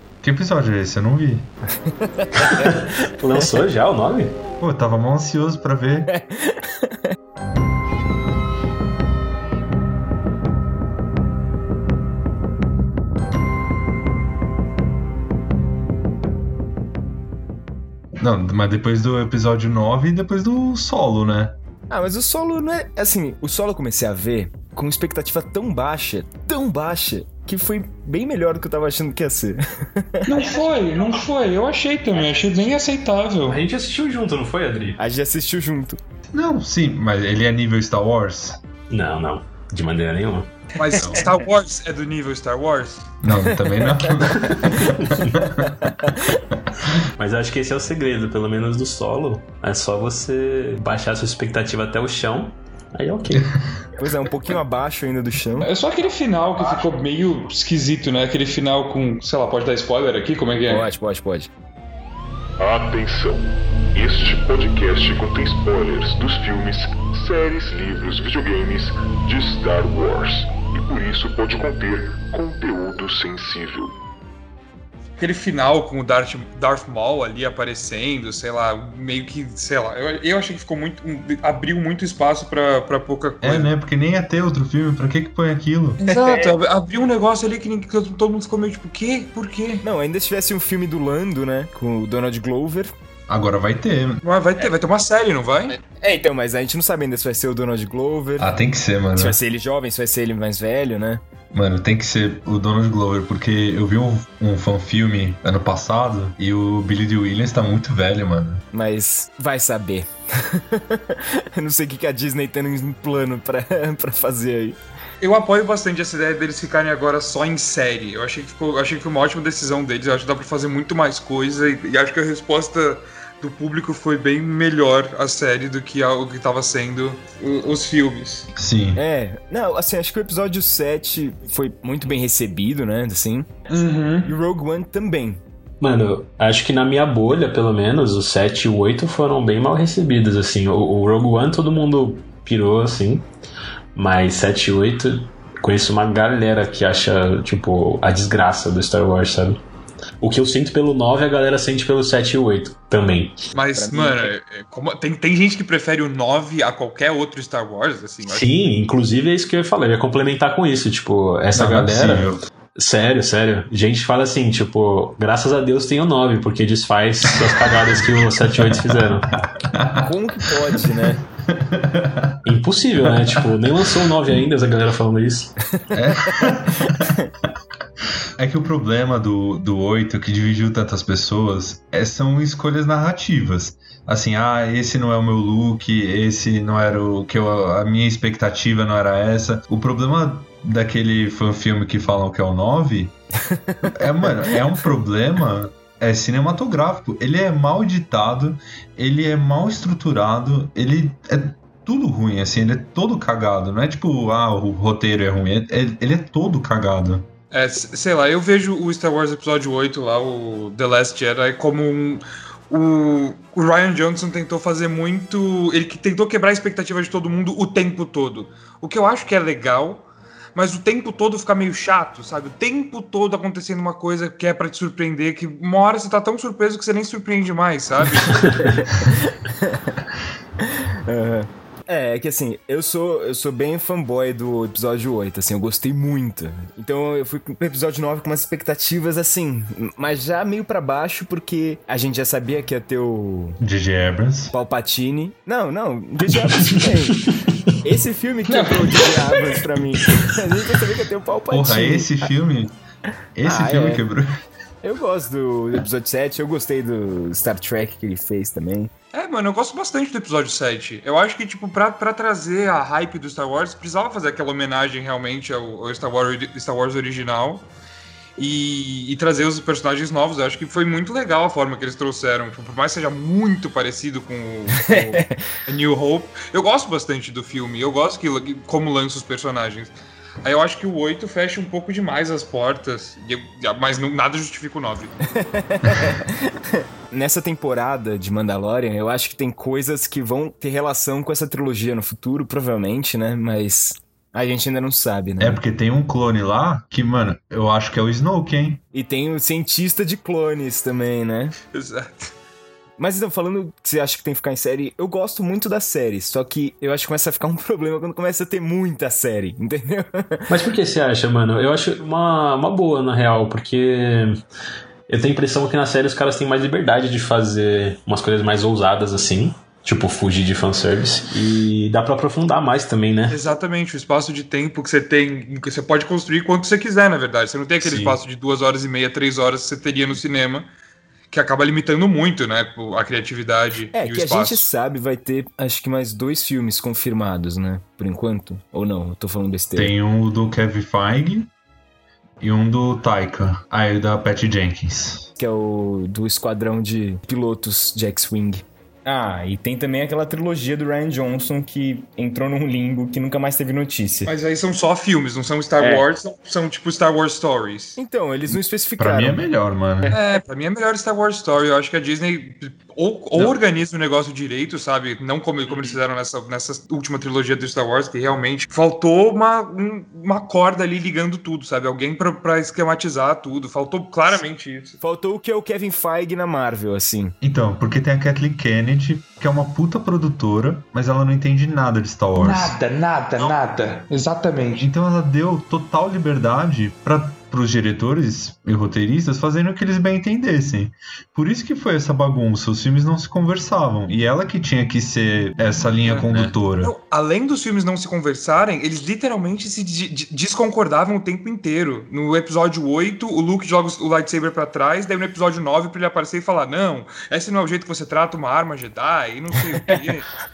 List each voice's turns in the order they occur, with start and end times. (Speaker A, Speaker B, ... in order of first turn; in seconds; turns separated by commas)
Speaker A: 0.2-1.5, Speaker B: 1.8-2.7, Speaker C: 2.4-4.3, Speaker A: 4.6-6.1, Speaker B: 6.1-7.0, Speaker A: 18.1-21.5, Speaker B: 21.9-30.4, Speaker D: 30.2-33.6, Speaker C: 33.5-35.0, Speaker B: 35.0-36.0, Speaker A: 36.3-38.6, Speaker C: 38.9-40.5, Speaker D: 40.8-43.0, Speaker A: 41.0-41.2, Speaker A: 43.2-45.7, Speaker B: 43.3-45.1, Speaker C: 44.4-45.5, Speaker B: 45.8-46.4, Speaker C: 47.0-53.5, Speaker B: 54.0-55.7, Speaker D: 55.6-60.8, Speaker B: 60.7-61.5, Speaker E: 62.6-74.0, Speaker D: 75.2-83.7, Speaker A: 83.4-86.0, Speaker D: 86.0-89.8, Speaker B: 86.0-86.5, Speaker B: 89.8-92.9, Speaker A: 93.3-94.2, Speaker D: 94.2-95.7, Speaker B: 95.8-98.5, Speaker A: 98.4-99.4, Speaker B: 99.2-101.2, Speaker A: 101.5-108.6, Speaker B: 108.7-114.8, Speaker D: 115.2-128.5, Speaker A: 128.5-129.0, Speaker B: 128.9-133.5, Speaker D: 133.7-134.3, Speaker B: 134.2-135.4, Speaker C: 135.8-143.2, Speaker C: 143.9-149.6, Speaker C: 150.2-153.4, Speaker D: 153.5-158.4, Speaker B: 153.6-154.3, Speaker C: 158.3-169.3, Speaker A: 161.5-162.4, Speaker A: 169.7-172.5, Speaker B: 169.9-171.2, Speaker C: 172.4-175.5, Speaker A: 173.1-173.5, Speaker A: 175.9-177.1, Speaker A: 178.4-193.1, Speaker B: 193.5-193.9, Speaker A: 193.9-207.3, Speaker D: 207.5-220.0, Speaker D: 220.5-228.6, Speaker C: 228.2-228.7, Speaker B: 228.6-229.9, Speaker B: 230.6-243.6, Speaker A: 243.6-244.5, Speaker B: 244.5-247.3, Speaker C: 246.6-247.5, Speaker B: 247.8-252.2, Speaker D: 248.5-249.5, Speaker A: 251.5-252.7, Speaker A: 253.3-254.3, Speaker B: 253.4-254.0, Speaker B: 254.8-258.9, Speaker D: 259.1-267.6, Speaker D: 268.4-279.9, Speaker B: 274.7-275.4, Speaker D: 280.4-285.2, Speaker B: 285.3-295.6, Speaker A: 295.4-298.8, Speaker B: 298.9-301.5, Speaker D: 301.7-302.3, Speaker B: 303.0-310.5, Speaker C: 310.5-314.4, Speaker C: 315.1-323.4, Speaker D: 323.3-330.7, Speaker A: 327.8-328.2, Speaker D: 331.3-334.7, Speaker B: 333.9-339.9, Speaker A: 339.8-341.5, Speaker A: 342.4-345.3, Speaker B: 345.4-354.3, Speaker D: 354.2-358.0, Speaker B: 355.8-356.1, Speaker B: 357.9-359.4, Speaker A: 358.5-360.1, Speaker D: 360.1-375.0, Speaker B: 375.0-377.3, Speaker A: 377.4-382.7, Speaker D: 382.3-384.9, Speaker A: 384.8-396.9, Speaker D: 396.0-410.3